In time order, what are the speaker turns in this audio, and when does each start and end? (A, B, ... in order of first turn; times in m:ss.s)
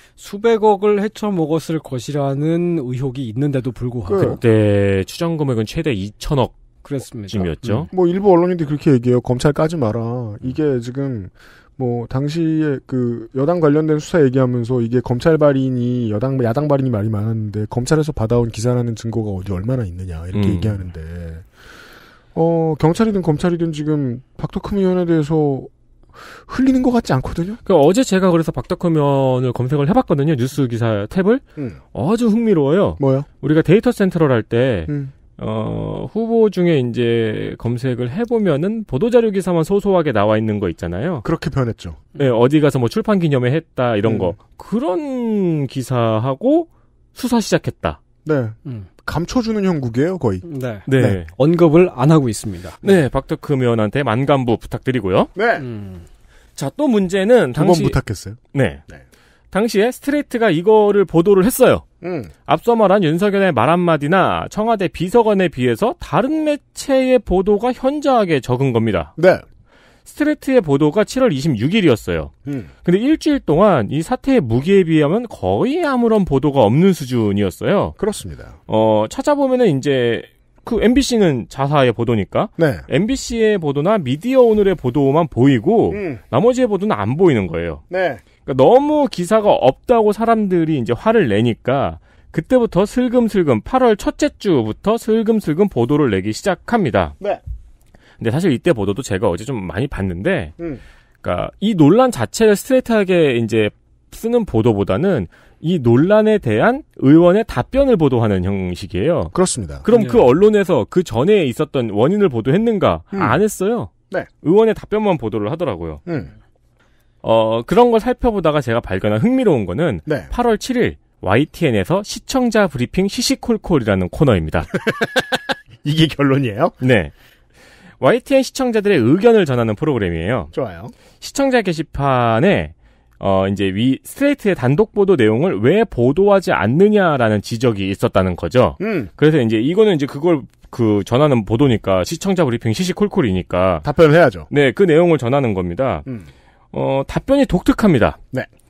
0:00.2-0:04.4 A
0:04.1-0:04.4 B
0:04.2-0:06.6 C
0:06.8-0:07.9 A
0:07.3-0:07.9 C
0:07.9-0:21.5 B
0:20.3-0:20.9 C
0:22.4-0:25.7 B
0:26.4-0:27.6 B
0:27.6-0:41.3 C
0:33.0-0:33.3 B
0:34.9-0:35.1 B
0:41.2-0:42.0 B
0:42.2-0:48.0 C
0:44.0-0:44.4 B
0:48.2-0:50.4 B
0:50.4-0:52.8 A
0:50.9-0:51.3 C
0:51.0-0:51.2 B
0:52.8-0:55.3 C
0:55.4-0:55.7 B
0:55.6-0:56.1 A
0:56.6-0:58.0 C
0:57.6-0:59.0 B
0:58.5-0:58.9 C
0:59.5-1:01.8 C
1:02.0-1:02.3 B
1:02.5-1:09.1 C
1:09.2-1:09.4 B
1:10.1-1:12.3 C
1:12.5-1:12.7 B
1:12.8-1:18.0 C
1:18.0-1:18.6 B
1:18.7-1:27.8 C
1:22.6-1:22.9 B
1:25.9-1:26.2 B
1:27.9-1:28.2 B
1:28.4-1:37.2 C
1:38.2-1:40.5 C
1:41.2-1:56.0 C
1:49.3-1:49.9 B
1:49.9-1:50.3 A
1:53.1-1:53.4 B
1:56.1-1:56.3 B
1:57.2-2:04.7 C
2:04.8-2:06.8 B
2:06.8-2:07.1 C
2:08.0-2:10.5 C
2:10.5-2:10.9 B
2:11.2-2:23.9 C
2:18.8-2:19.1 B
2:23.8-2:24.5 B
2:24.5-2:26.1 C
2:26.7-2:28.2 C